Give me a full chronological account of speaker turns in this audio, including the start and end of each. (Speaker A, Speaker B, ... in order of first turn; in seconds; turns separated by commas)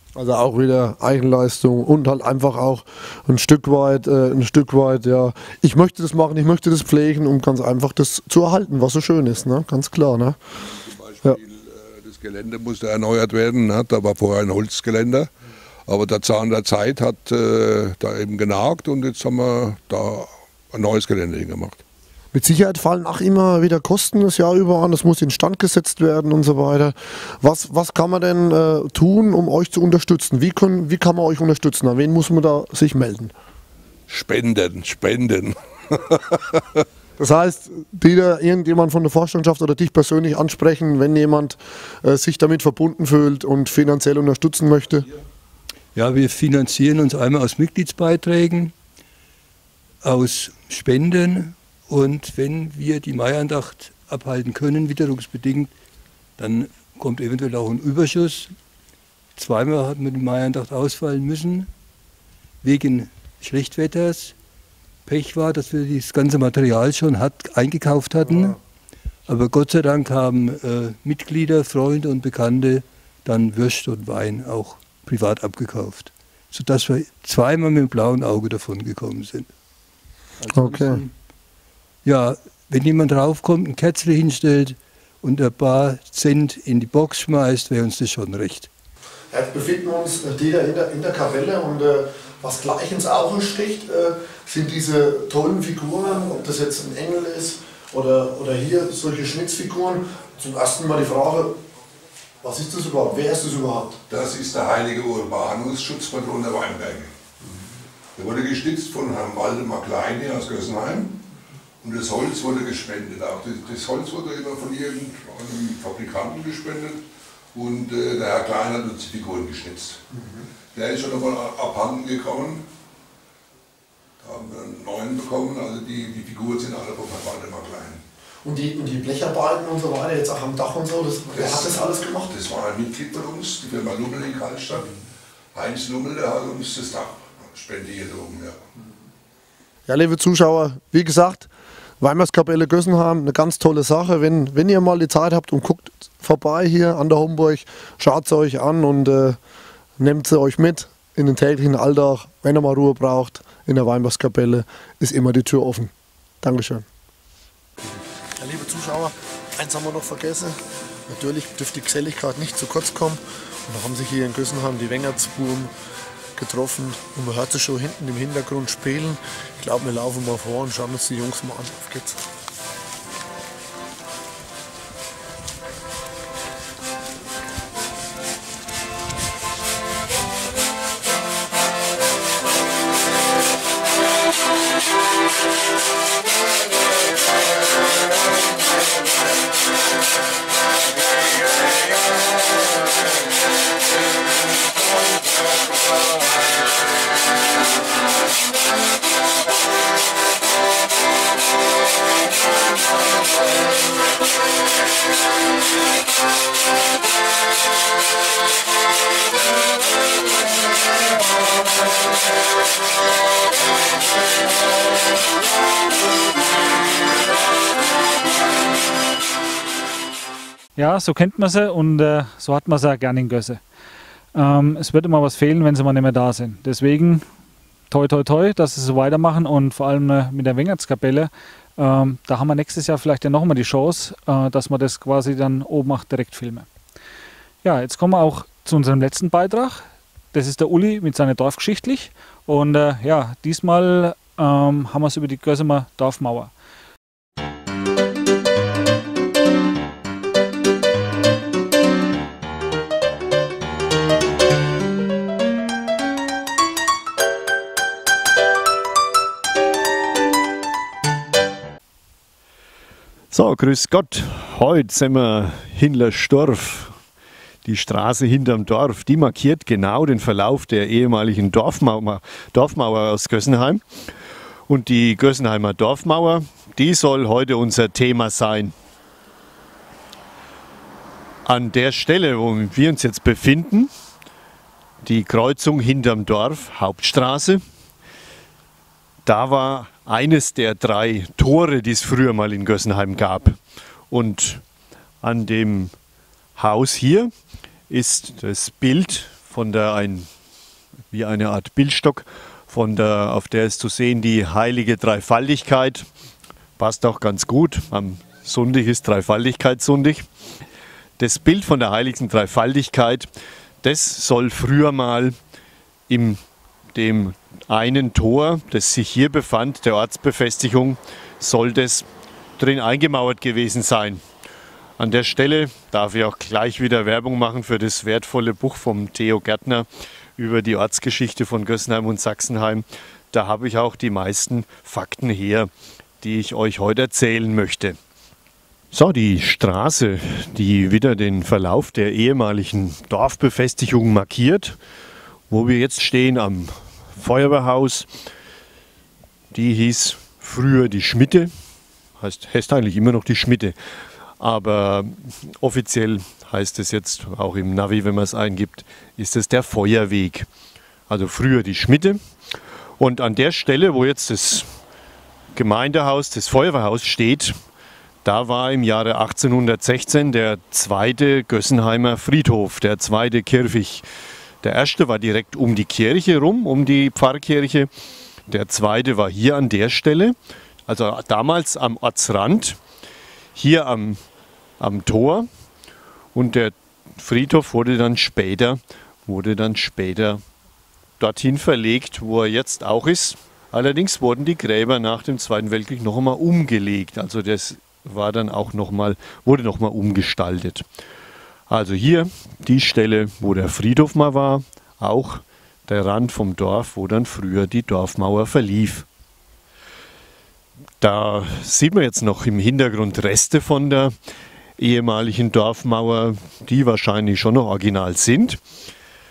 Speaker A: 0.2-10.4, Speaker B: 10.7-15.3, Speaker B: 15.9-21.8, Speaker A: 22.3-33.3, Speaker B: 34.1-36.6, Speaker A: 37.2-45.1, Speaker C: 46.0-48.7, Speaker C: 50.0-55.7, Speaker C: 56.4-58.5, Speaker C: 59.4-61.7, Speaker C: 62.6-64.3, Speaker C: 65.1-68.6, Speaker C: 69.3-79.5, Speaker C: 80.4-81.0, Speaker A: 80.5-81.0, Speaker C: 82.0-88.7, Speaker A: 89.3-101.6, Speaker A: 102.4-104.0, Speaker B: 104.1-107.2, Speaker B: 108.2-111.2, Speaker B: 111.8-120.0, Speaker A: 120.1-120.4, Speaker B: 120.7-122.7, Speaker B: 124.2-128.0, Speaker A: 128.4-132.4, Speaker B: 131.3-134.9, Speaker B: 135.5-138.6, Speaker A: 139.9-149.4, Speaker A: 150.0-156.8, Speaker A: 158.4-165.7, Speaker A: 166.4-172.2, Speaker D: 220.8-223.6, Speaker D: 224.3-227.3, Speaker D: 227.9-236.7, Speaker D: 237.6-246.5, Speaker E: 263.3-267.0, Speaker E: 267.6-274.1, Speaker E: 274.7-278.7, Speaker E: 281.4-283.9, Speaker E: 285.0-287.6, Speaker E: 289.3-293.6, Speaker E: 294.1-294.6, Speaker E: 295.2-295.9, Speaker E: 296.6-297.3, Speaker E: 297.9-300.3, Speaker E: 301.1-306.1, Speaker E: 306.8-310.3, Speaker E: 311.2-313.3, Speaker E: 313.8-315.4, Speaker E: 316.1-316.4, Speaker E: 316.9-322.1, Speaker E: 322.6-324.2, Speaker E: 325.0-335.7, Speaker E: 336.2-338.0, Speaker E: 338.9-344.8, Speaker E: 345.5-348.1, Speaker E: 349.5-351.5, Speaker E: 352.2-353.8, Speaker E: 354.4-360.5, Speaker E: 361.1-362.2, Speaker E: 363.0-364.7, Speaker E: 365.5-367.6, Speaker E: 368.2-374.1, Speaker E: 374.6-377.9, Speaker E: 378.5-380.4, Speaker E: 380.9-382.8, Speaker E: 383.6-384.2, Speaker E: 384.8-385.5, Speaker E: 386.4-390.4, Speaker E: 391.2-400.9, Speaker E: 401.7-409.1, Speaker E: 411.0-414.1, Speaker E: 414.8-418.6